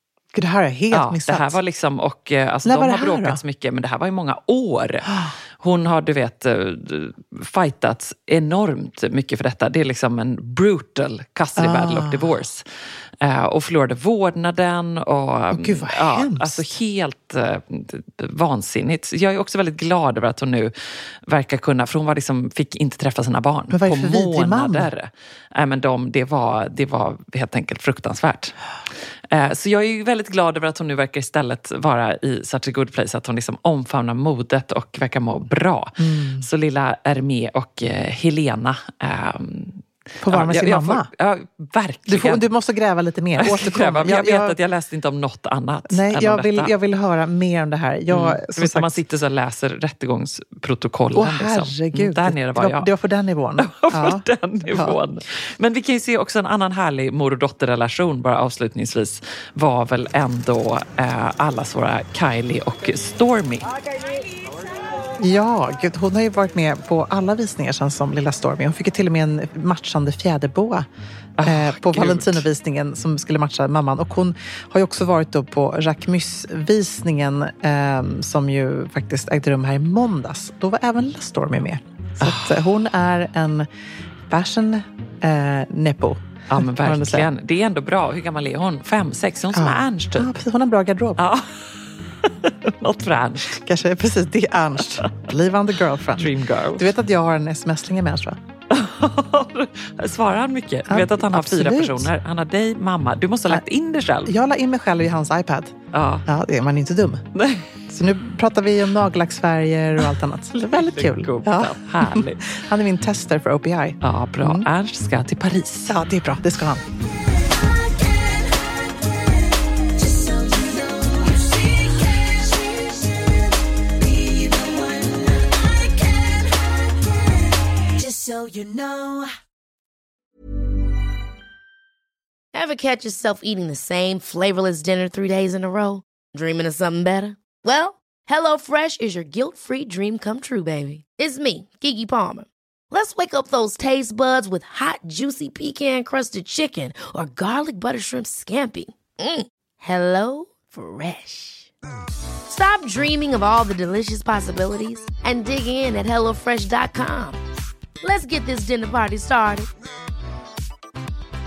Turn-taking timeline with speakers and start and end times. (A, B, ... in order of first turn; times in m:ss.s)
0:00.3-0:01.6 A
0:00.9-0:12.6 B
0:02.6-0:03.4 A
0:05.1-0:05.3 A
0:11.6-0:12.4 A
0:13.2-0:20.7 B
0:15.5-0:16.6 A
0:21.3-0:28.6 B
0:23.7-0:24.9 A
0:29.3-0:42.4 B
0:36.0-0:36.5 A
0:40.2-0:41.1 A
0:42.1-0:44.6 A
0:43.4-0:46.7 B
0:45.9-0:49.0 A
0:48.1-0:52.9 B
0:51.1-0:55.0 A
0:53.6-1:03.7 B
1:05.2-1:10.9 A
1:11.4-1:12.4 B
1:11.4-1:23.7 A
1:22.2-1:22.6 B
1:24.3-1:27.3 A
1:26.5-1:30.3 B
1:29.5-1:31.2 A
1:31.2-1:31.6 B
1:32.2-1:33.6 B
1:33.5-1:38.4 A
1:36.2-1:36.9 B
1:38.7-1:44.4 B
1:40.9-1:42.1 A
1:44.2-1:45.8 A
1:45.9-1:46.3 B
1:46.3-1:47.2 A
1:47.4-1:47.7 B
1:47.9-1:54.7 A
1:50.6-1:52.4 B
1:54.0-1:55.9 B
1:55.9-1:56.8 A
2:08.0-2:09.2 C
2:12.5-2:31.7 C
2:32.5-2:37.4 C
2:38.0-2:39.7 C